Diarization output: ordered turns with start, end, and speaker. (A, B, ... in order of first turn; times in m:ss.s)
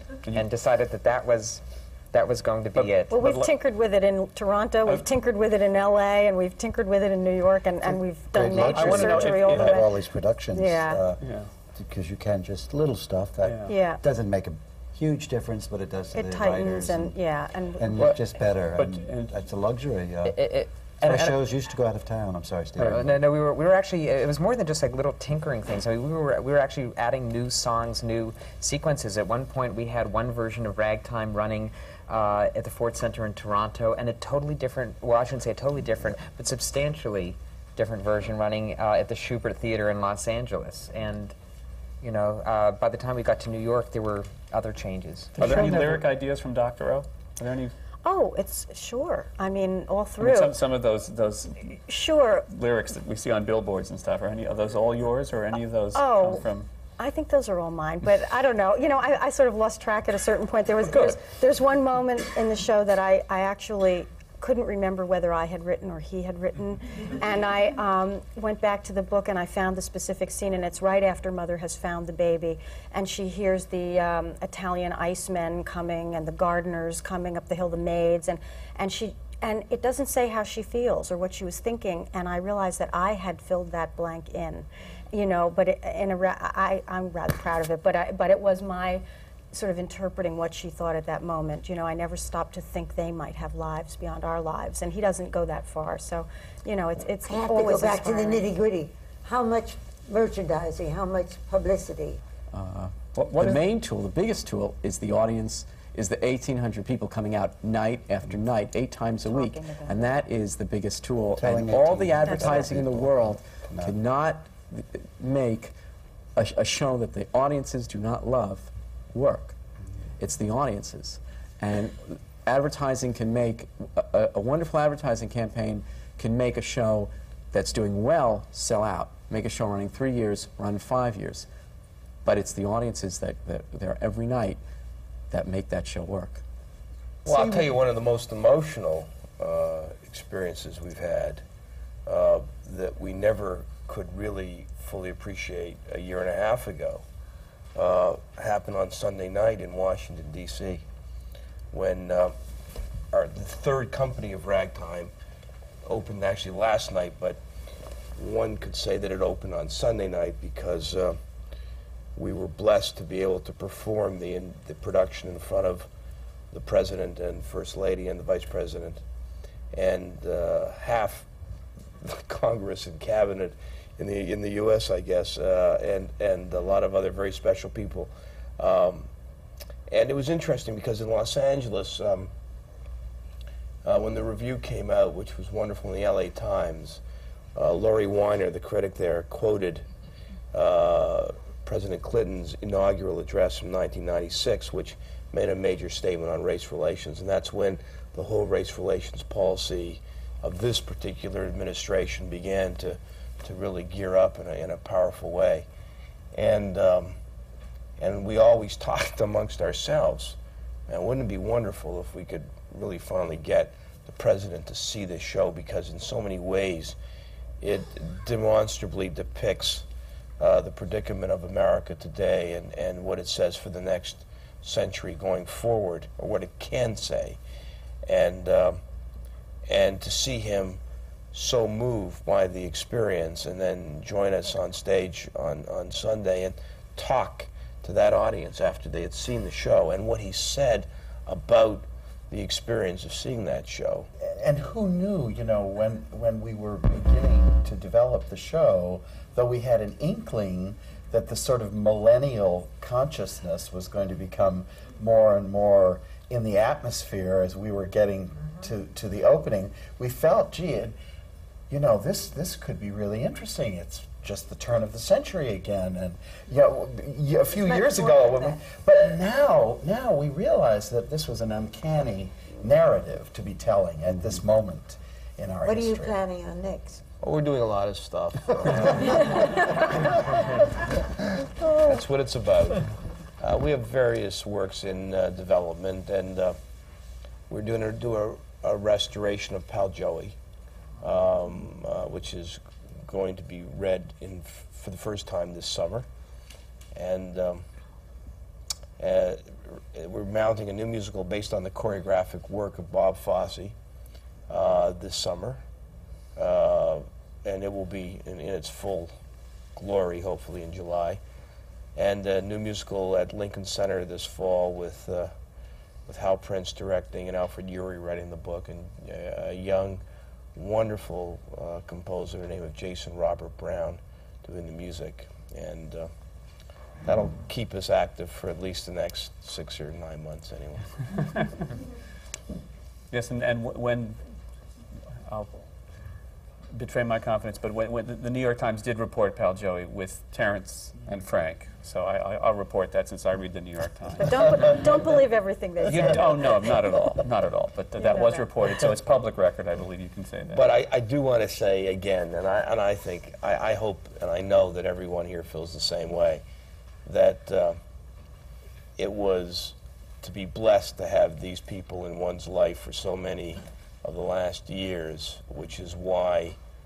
0:00.3-0:03.2 A
0:02.8-0:03.5 B
0:03.1-0:09.9 C
0:08.3-0:11.2 D
0:08.5-0:09.8 B
0:10.5-0:11.0 C
0:11.2-0:11.5 B
0:11.7-0:17.1 D
0:13.4-0:13.7 B
0:13.7-0:14.0 C
0:16.1-0:18.0 C
0:17.8-0:20.4 D
0:18.0-0:19.3 B
0:20.2-0:21.4 A
0:21.0-0:23.2 D
0:22.8-0:41.3 A
0:42.0-0:46.0 A
0:45.4-0:47.7 B
0:48.0-0:50.6 C
0:50.2-0:51.8 B
0:51.9-0:52.5 C
0:52.5-0:56.7 B
0:56.0-0:56.4 C
0:57.0-1:38.4 C
1:00.9-1:01.2 B
1:37.2-1:42.2 E
1:42.5-1:55.7 F
1:43.2-1:43.6 B
1:49.2-1:50.1 C
1:51.4-1:54.0 D
1:52.2-1:52.7 C
1:56.4-1:59.6 F
2:00.2-2:11.5 F
2:12.2-2:14.6 F
2:15.3-2:16.4 F
2:17.2-2:21.4 G
2:17.3-2:17.6 H
2:22.0-2:27.0 G
2:27.7-2:30.8 G
2:31.7-2:32.3 G
2:33.1-2:35.1 G
2:35.8-2:37.4 G
2:38.2-2:41.2 G
2:42.2-2:45.9 G
2:46.5-2:49.0 G
2:49.7-2:51.3 G
2:52.0-2:59.1 G
2:59.9-3:02.3 G
3:03.8-3:07.0 G
3:07.6-3:09.8 G
3:10.5-3:25.7 G
3:26.3-3:27.2 G
3:28.0-3:30.4 G
3:30.9-3:37.0 G
3:37.6-3:39.9 G
3:40.4-3:47.4 G
3:48.0-3:48.8 G
3:49.7-3:50.8 G
3:51.3-4:04.1 G
4:04.4-4:21.0 H
4:21.7-4:36.2 H
4:27.6-4:28.6 E
4:35.6-4:37.0 E
4:37.2-4:40.6 G
4:41.6-4:42.9 G
4:43.4-4:46.6 G
4:47.5-4:50.4 G
4:51.0-4:56.0 G
4:57.0-4:57.6 G
4:59.0-5:03.7 G
5:04.5-5:05.6 G
5:06.4-5:09.1 G
5:09.8-5:11.2 G
5:12.0-5:15.3 G
5:16.1-5:20.0 G
5:20.6-5:26.1 G
5:27.0-5:30.9 G
5:33.1-5:34.2 B
5:35.3-5:35.6 B
5:36.7-5:45.2 B
5:44.2-5:46.7 C
5:45.8-5:50.6 B
5:48.0-5:48.4 C
5:50.5-5:56.4 G
5:57.0-5:57.8 G
5:59.0-6:06.6 G